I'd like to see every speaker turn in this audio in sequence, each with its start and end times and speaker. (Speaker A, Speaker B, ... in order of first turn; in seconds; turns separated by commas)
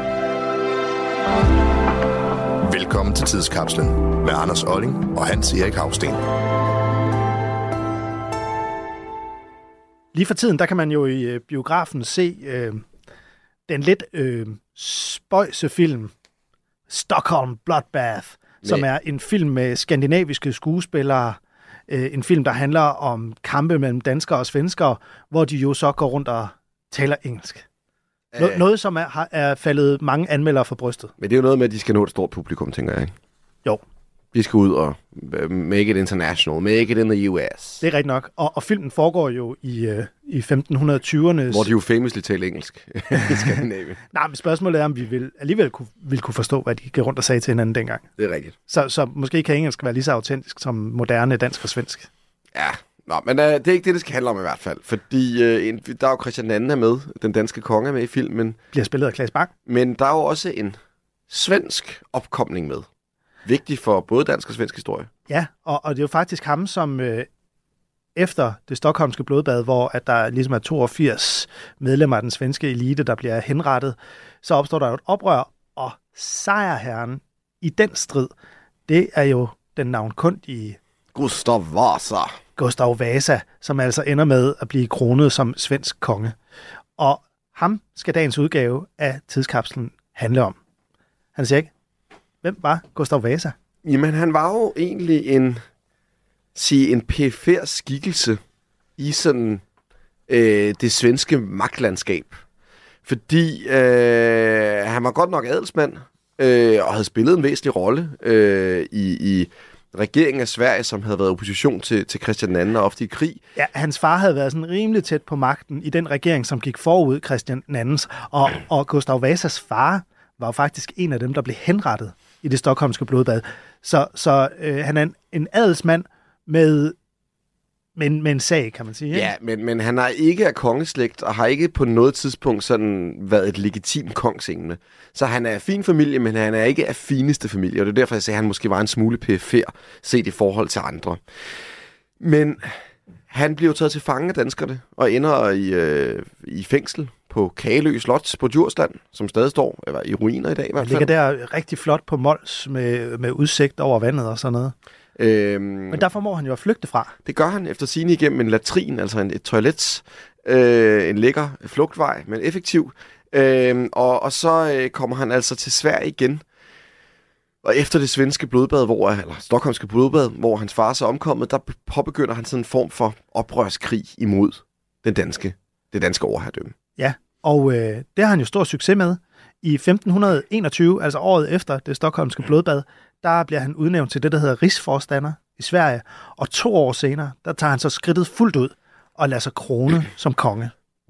Speaker A: 2.6-6.2, Speaker B: 10.1-12.8, Speaker B: 13.7-16.1, Speaker B: 16.9-27.6, Speaker C: 28.3-28.6, Speaker B: 28.4-31.1, Speaker C: 31.2-33.1, Speaker C: 34.3-37.8, Speaker B: 37.8-41.7, Speaker C: 41.5-44.0, Speaker B: 44.1-48.0, Speaker C: 48.2-48.5, Speaker B: 48.7-52.1, Speaker C: 52.5-58.6, Speaker B: 58.7-59.5, Speaker C: 59.6-60.8, Speaker C: 61.3-62.9, Speaker C: 63.4-65.1, Speaker B: 65.3-67.3, Speaker B: 68.1-78.3, Speaker B: 78.9-80.8, Speaker C: 81.1-82.3, Speaker B: 82.6-86.3, Speaker B: 87.0-90.6, Speaker B: 91.3-91.7, Speaker B: 92.4-93.5, Speaker C: 93.8-95.6, Speaker C: 96.5-98.4, Speaker C: 99.0-99.6, Speaker C: 100.3-102.4, Speaker C: 103.0-113.4, Speaker B: 113.5-127.0, Speaker B: 128.0-129.3, Speaker C: 129.1-141.2, Speaker C: 142.2-142.8, Speaker C: 143.3-151.1, Speaker B: 150.8-154.7, Speaker C: 155.2-156.1, Speaker B: 155.9-157.1, Speaker C: 157.2-166.4, Speaker C: 167.6-176.7, Speaker B: 177.0-190.7